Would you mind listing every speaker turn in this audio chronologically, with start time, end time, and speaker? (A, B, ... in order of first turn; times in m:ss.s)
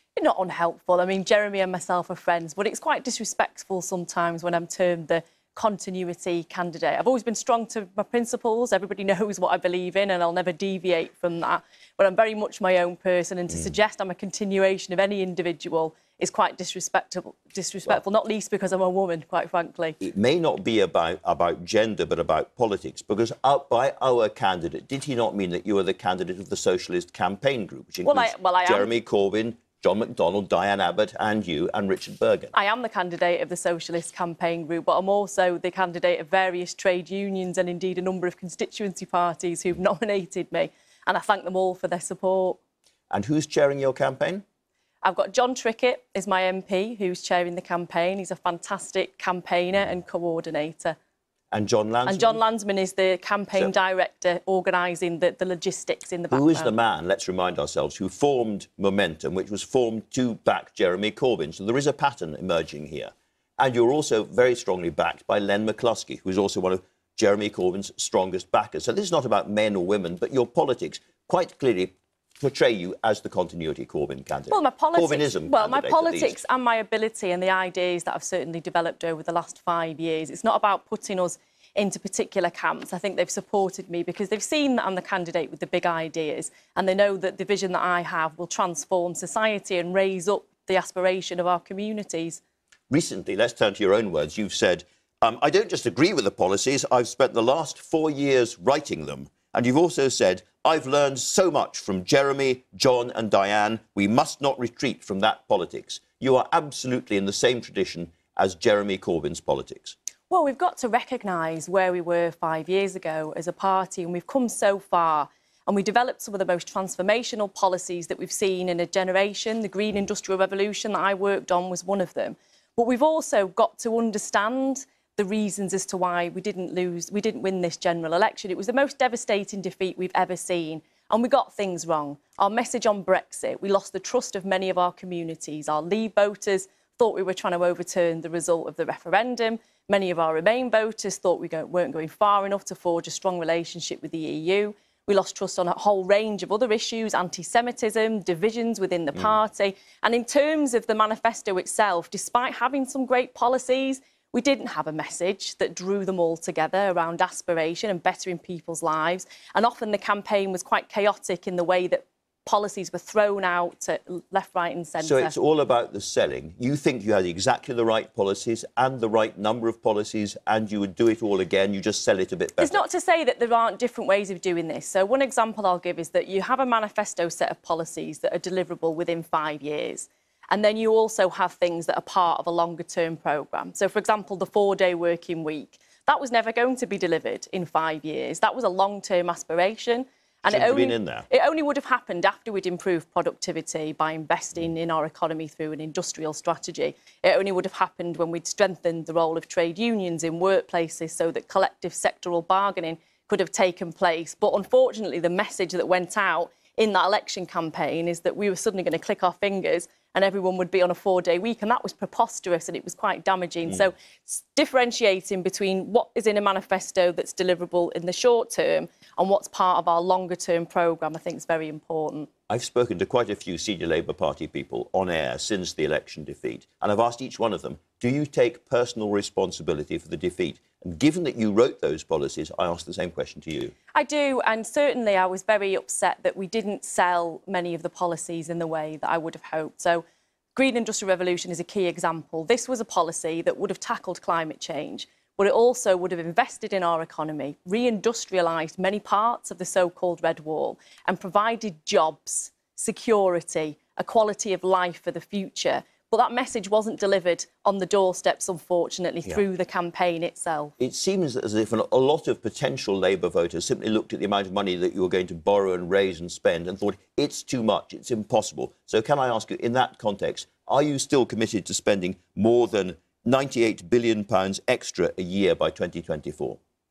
0:00.2-0:20.0 A
0:20.0-0:32.5 B
0:28.0-0:28.9 A
0:32.5-0:42.6 A
0:43.1-0:44.4 B
0:45.0-0:51.0 A
0:51.5-0:52.4 B
0:52.0-0:56.7 A
0:56.3-1:16.4 B
1:14.5-1:32.4 A
1:32.9-1:50.0 B
1:50.3-2:45.3 A
2:45.0-2:52.8 B
2:52.6-3:42.3 A
3:10.5-3:11.3 B
3:42.5-3:53.8 B
3:53.9-4:00.0 A
4:00.6-4:20.7 A
4:20.8-4:36.6 B